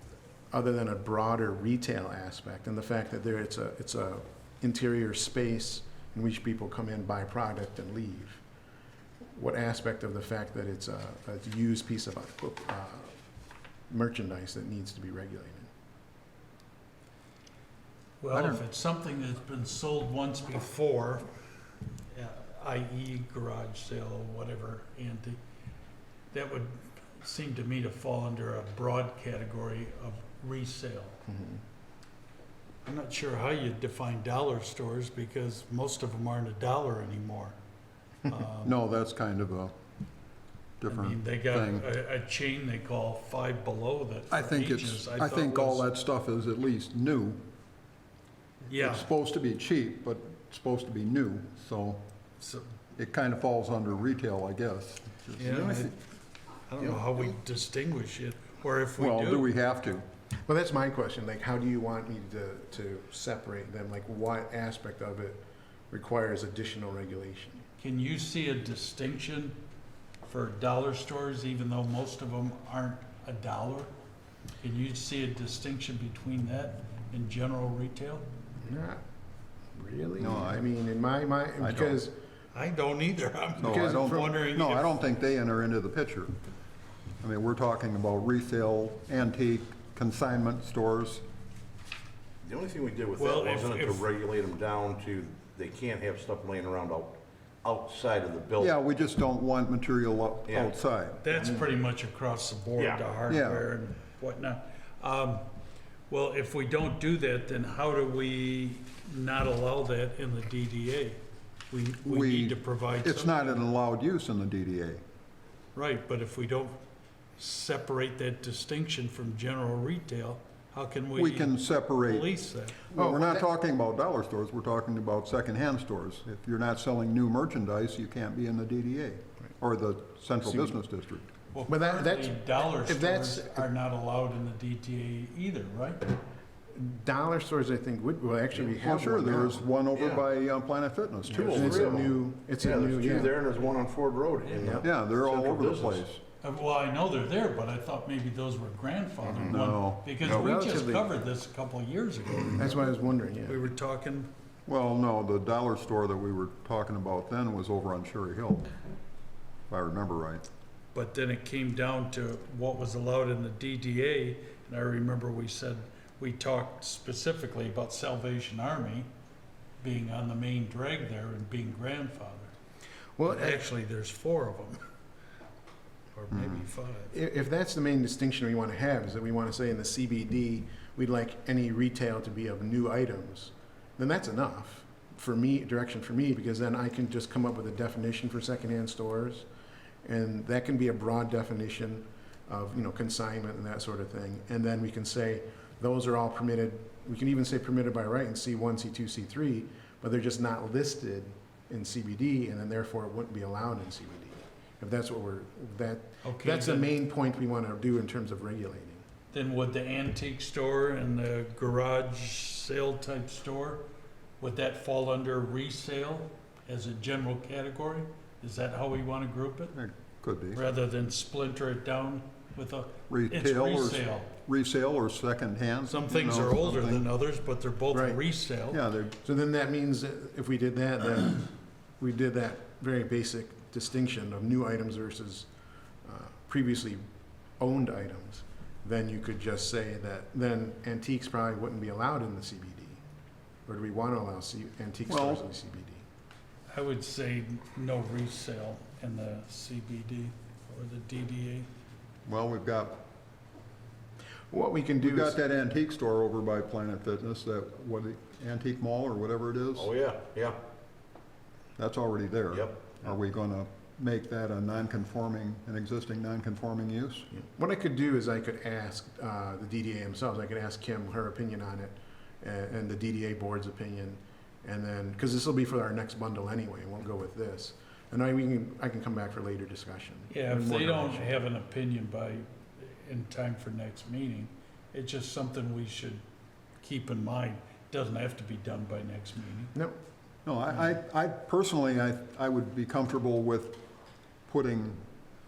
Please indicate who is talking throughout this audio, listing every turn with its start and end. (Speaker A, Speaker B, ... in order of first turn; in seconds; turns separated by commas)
Speaker A: 0.5-8.4, Speaker A: 9.3-13.2, Speaker A: 13.9-15.7, Speaker B: 18.2-21.4, Speaker C: 18.3-18.6, Speaker B: 22.1-25.4, Speaker B: 26.3-31.2, Speaker A: 31.2-31.6, Speaker B: 32.8-37.5, Speaker B: 38.2-38.7, Speaker C: 38.6-39.7, Speaker C: 40.8-41.9, Speaker B: 40.9-45.9, Speaker C: 44.3-47.4, Speaker B: 48.7-49.1, Speaker C: 48.7-52.0, Speaker B: 52.4-52.7, Speaker C: 53.0-55.7, Speaker B: 55.4-56.0, Speaker D: 55.4-55.9, Speaker B: 56.7-59.5, Speaker D: 56.8-57.2, Speaker C: 59.0-60.0, Speaker A: 60.5-67.7, Speaker B: 67.8-69.6, Speaker B: 70.2-73.9, Speaker B: 74.6-78.2, Speaker A: 78.6-79.0, Speaker A: 79.7-82.2, Speaker C: 80.2-80.7, Speaker C: 81.6-82.0, Speaker B: 82.5-84.9, Speaker C: 83.6-86.3, Speaker A: 83.6-84.3, Speaker C: 87.2-91.2, Speaker D: 92.4-98.7, Speaker B: 93.2-94.0, Speaker C: 98.6-101.2, Speaker D: 100.5-100.7, Speaker B: 101.2-105.5, Speaker D: 101.3-101.7, Speaker D: 102.8-103.0, Speaker C: 103.3-103.7, Speaker B: 106.1-113.6, Speaker C: 112.0-115.0, Speaker B: 115.7-116.8, Speaker B: 117.4-122.8, Speaker C: 121.1-122.3, Speaker C: 122.9-131.3, Speaker A: 122.9-123.4, Speaker A: 130.4-130.8, Speaker B: 131.5-136.1, Speaker A: 131.7-133.7, Speaker A: 136.7-139.6, Speaker C: 138.8-142.1, Speaker D: 139.9-140.2, Speaker D: 141.3-146.0, Speaker A: 141.3-143.4, Speaker A: 144.5-144.9, Speaker C: 144.8-146.2, Speaker B: 146.4-154.3, Speaker C: 149.4-150.4, Speaker A: 150.2-151.1, Speaker A: 152.6-153.6, Speaker C: 154.7-158.7, Speaker C: 159.7-160.4, Speaker B: 160.9-169.1, Speaker B: 169.8-172.5, Speaker A: 173.2-173.6, Speaker B: 173.2-174.8, Speaker B: 176.1-177.1, Speaker C: 176.3-176.6, Speaker A: 177.1-189.5, Speaker A: 190.0-209.0, Speaker B: 206.2-206.9, Speaker B: 209.3-213.8, Speaker B: 214.4-219.7, Speaker C: 219.7-220.6, Speaker B: 220.5-224.3, Speaker C: 223.1-227.1, Speaker B: 225.9-228.8, Speaker A: 227.9-228.2, Speaker C: 228.7-229.2, Speaker A: 229.2-235.5, Speaker A: 236.0-237.0, Speaker A: 237.6-243.0, Speaker A: 243.7-246.0, Speaker C: 245.1-245.4, Speaker B: 246.7-251.7, Speaker C: 252.2-253.0, Speaker A: 254.5-255.4, Speaker C: 255.0-259.9, Speaker D: 259.7-260.6, Speaker C: 261.8-267.3, Speaker D: 262.5-262.9, Speaker A: 267.3-281.3, Speaker B: 280.3-286.2, Speaker B: 286.8-289.7, Speaker C: 290.4-293.8, Speaker C: 294.5-295.0